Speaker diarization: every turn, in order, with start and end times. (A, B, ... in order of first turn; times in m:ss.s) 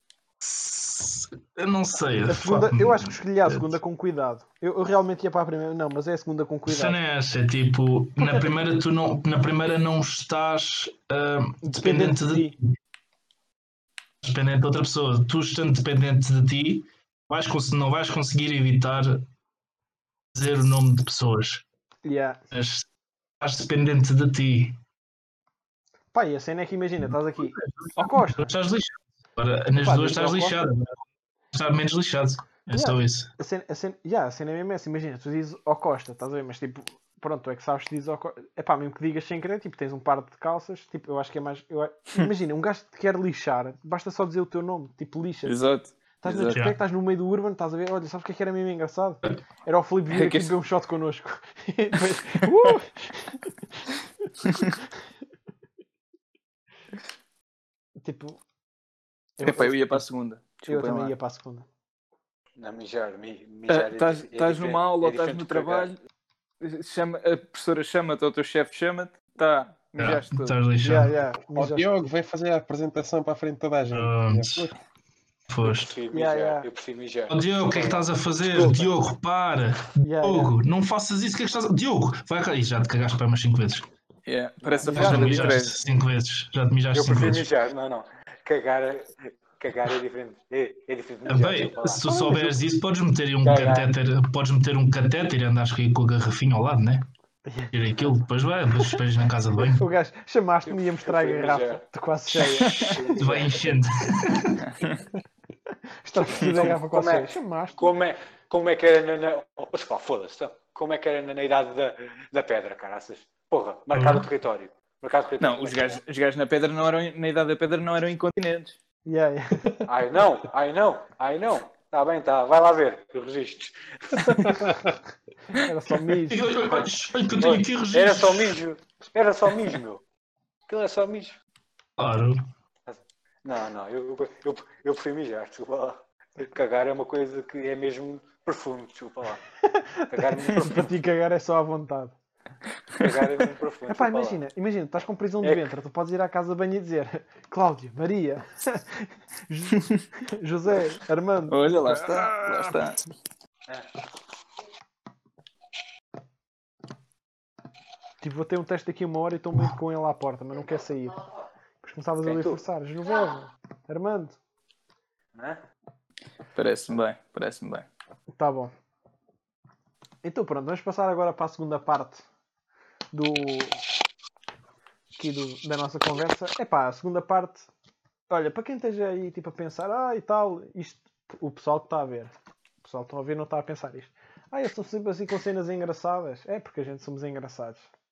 0:00.4-0:03.6 A
0:02.3-0:07.0 B
0:06.6-0:12.8 A
0:08.2-0:08.5 B
0:11.6-0:12.5 B
0:14.2-0:19.2 A
0:20.3-0:21.6 A
0:22.0-0:22.4 B
0:22.5-0:22.8 A
0:23.4-0:24.8 A
0:26.1-0:28.5 B
0:27.4-0:31.0 A
0:29.8-0:30.6 B
0:31.5-0:33.3 A
0:32.7-0:45.6 B
0:45.4-0:46.6 C
0:46.2-0:53.4 B
0:46.5-0:46.8 A
0:50.1-0:50.5 C
0:52.4-0:52.7 C
0:58.0-0:58.4 B
0:59.4-1:00.0 B
0:59.4-1:01.1 C
1:00.6-1:01.6 B
1:02.6-1:05.9 D
1:03.7-1:06.0 C
1:06.6-1:10.6 C
1:10.0-1:11.1 A
1:10.8-1:12.0 B
1:11.5-1:14.7 E
1:13.9-1:14.7 A
1:15.5-1:15.9 A
1:15.6-1:18.9 D
1:16.1-1:16.7 B
1:17.3-1:23.9 A
1:20.0-1:20.6 B
1:24.2-1:25.8 C
1:24.6-1:25.3 D
1:24.8-1:25.5 B
1:24.9-1:27.5 A
1:26.9-1:32.1 D
1:31.3-1:37.1 A
1:32.0-1:32.6 B
1:33.4-1:33.9 D
1:37.4-1:37.7 B
1:37.7-1:39.8 A
1:39.7-1:43.2 B
1:40.7-1:43.8 D
1:43.2-1:44.7 A
1:46.0-1:47.9 B
1:46.2-1:56.0 D
1:53.9-1:54.3 A
1:55.4-1:58.8 C
1:59.0-1:59.7 B
1:59.9-2:04.7 D
2:04.4-2:04.9 E
2:05.5-2:06.5 B
2:06.3-2:08.6 A
2:06.6-2:10.0 D
2:10.7-2:11.4 D
2:12.0-2:12.4 A
2:12.9-2:19.4 D
2:19.6-2:22.1 B
2:20.1-2:20.9 D
2:23.0-2:24.4 D
2:23.9-2:32.4 B
2:25.4-2:25.7 D
2:31.5-2:33.0 C
2:38.2-2:41.2 B
2:41.8-2:44.4 B
2:42.2-2:42.6 D
2:45.3-2:45.6 D
2:46.6-2:47.8 C
2:48.3-2:48.7 B
2:50.2-2:52.2 B
2:53.1-2:53.8 B
2:55.2-2:57.7 B
2:58.3-3:02.3 B
3:02.8-3:07.9 B